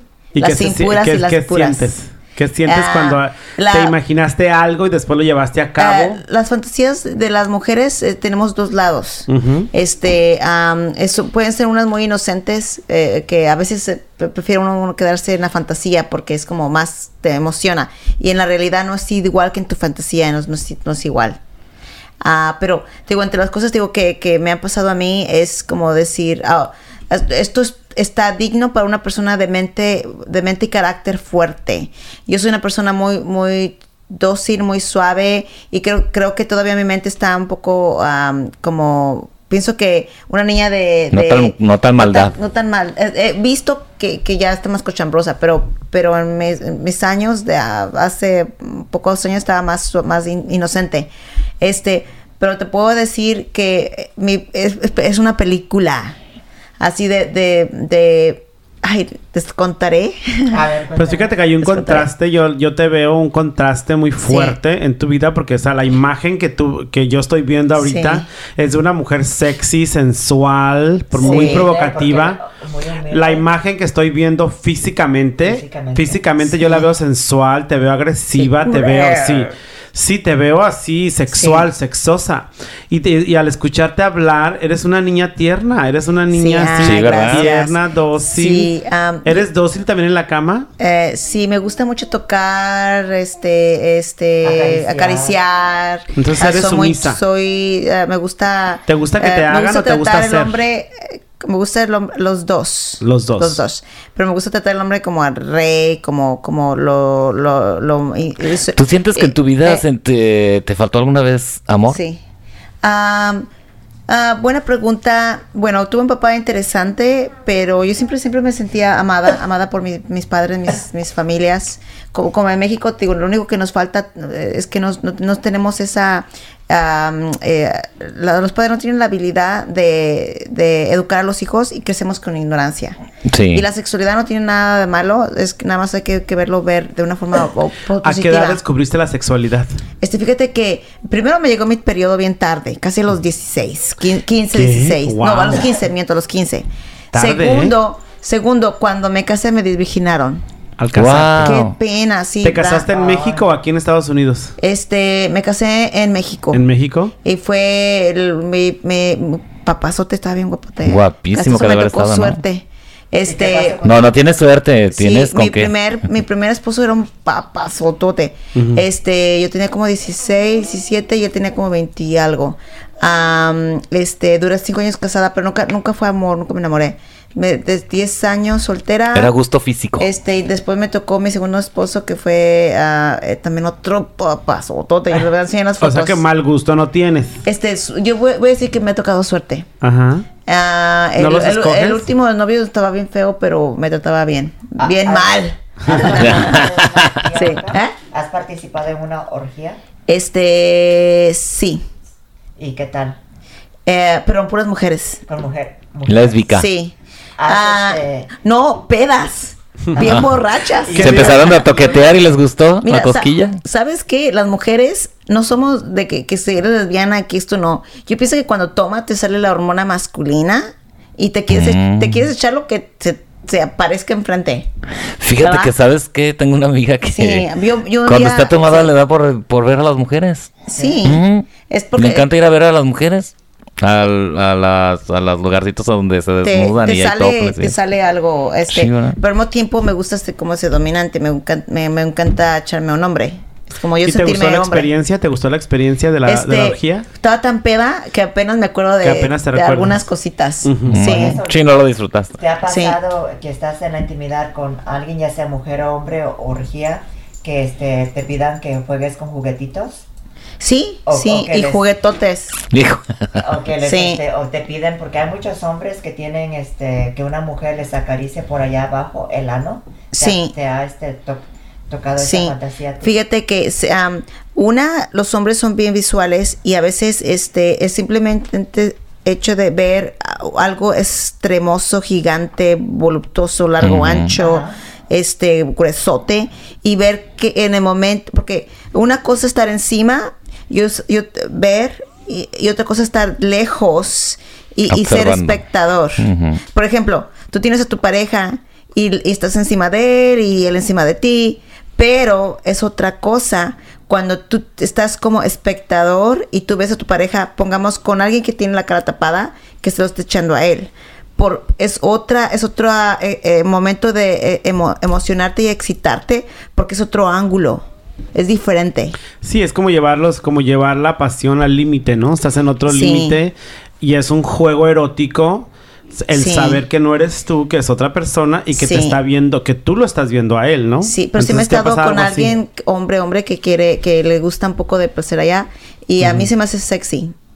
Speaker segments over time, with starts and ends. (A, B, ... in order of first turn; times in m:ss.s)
0:00.3-0:06.2 A
0:00.4-0:01.9 B
0:02.6-0:04.0 B
0:05.8-0:21.4 B
0:09.3-0:09.7 A
0:22.2-0:51.1 B
0:41.1-0:42.3 C
0:51.6-0:56.2 B
0:56.8-1:00.6 B
1:00.5-1:01.4 D
1:00.9-1:12.4 A
1:01.6-1:02.1 B
1:04.2-1:04.6 B
1:07.8-1:08.3 B
1:11.2-1:13.4 D
1:11.2-1:11.7 B
1:13.1-1:28.7 A
1:15.4-1:16.2 D
1:16.4-1:16.9 B
1:18.4-1:19.5 B
1:21.3-1:21.7 B
1:26.3-1:29.5 B
1:26.7-1:27.5 C
1:29.2-1:30.7 A
1:30.8-1:49.8 B
1:34.4-1:35.4 D
1:36.2-1:37.2 A
1:38.9-1:40.6 A
1:43.0-1:43.6 A
1:48.7-1:52.0 C
1:51.9-1:52.2 B
1:52.8-1:53.5 B
1:54.1-2:13.0 B
2:13.3-2:13.6 C
2:13.5-2:18.6 B
2:18.0-2:19.7 A
2:20.0-2:30.4 B
2:24.5-2:25.7 A
2:27.1-2:27.8 A
2:30.8-2:31.6 A
2:30.9-2:31.7 C
2:31.4-2:32.9 B
2:32.4-2:34.6 A
2:32.9-2:33.4 D
2:34.6-2:36.6 B
2:36.5-2:37.1 A
2:37.2-2:43.8 B
2:40.8-2:42.4 C
2:43.2-2:44.2 D
2:43.8-2:45.7 C
2:44.9-2:59.3 B
2:48.5-2:48.8 A
2:59.1-3:00.1 C
3:00.0-3:06.2 B
3:05.8-3:07.4 A
3:07.4-3:09.7 B
3:09.8-3:10.2 A
3:10.5-3:17.9 B
3:11.2-3:12.1 A
3:14.8-3:19.8 D
3:16.2-3:17.0 C
3:20.1-3:21.8 B
3:22.6-3:23.2 D
3:23.8-3:25.2 B
3:25.3-3:26.6 D
3:26.1-3:26.6 C
3:26.5-3:26.9 B
3:27.4-3:28.3 D
3:27.5-3:31.6 B
3:29.9-3:32.4 D
3:30.9-3:31.5 A
3:31.0-3:33.6 C
3:32.8-3:44.7 B
3:41.5-3:42.2 C
3:45.2-3:47.5 C
3:45.4-3:45.7 B
3:47.1-3:48.9 B
3:48.0-3:57.7 C
3:50.7-3:52.3 B
3:50.8-3:51.0 D
3:56.4-4:04.9 B
3:58.7-3:59.2 C
4:04.0-4:07.1 A
4:06.2-4:11.4 B
4:09.0-4:10.0 A
4:10.6-4:11.0 A
4:10.9-4:12.4 C
4:11.0-4:11.8 D
4:12.4-4:20.0 D
4:12.7-4:13.0 B
4:20.6-4:22.6 B
4:21.1-4:21.8 D
4:22.7-4:23.4 C
4:23.4-4:33.1 D
4:23.8-4:24.2 B
4:30.1-4:30.5 B
4:32.2-5:19.2 B
4:43.8-4:44.3 C
4:44.3-4:44.7 D
4:54.9-4:55.6 C
4:56.2-4:56.6 C
5:19.4-5:32.6 A
5:22.9-5:23.4 B
5:26.3-5:26.8 B
5:28.7-5:29.2 B
5:31.0-5:37.3 B
5:36.2-5:36.5 A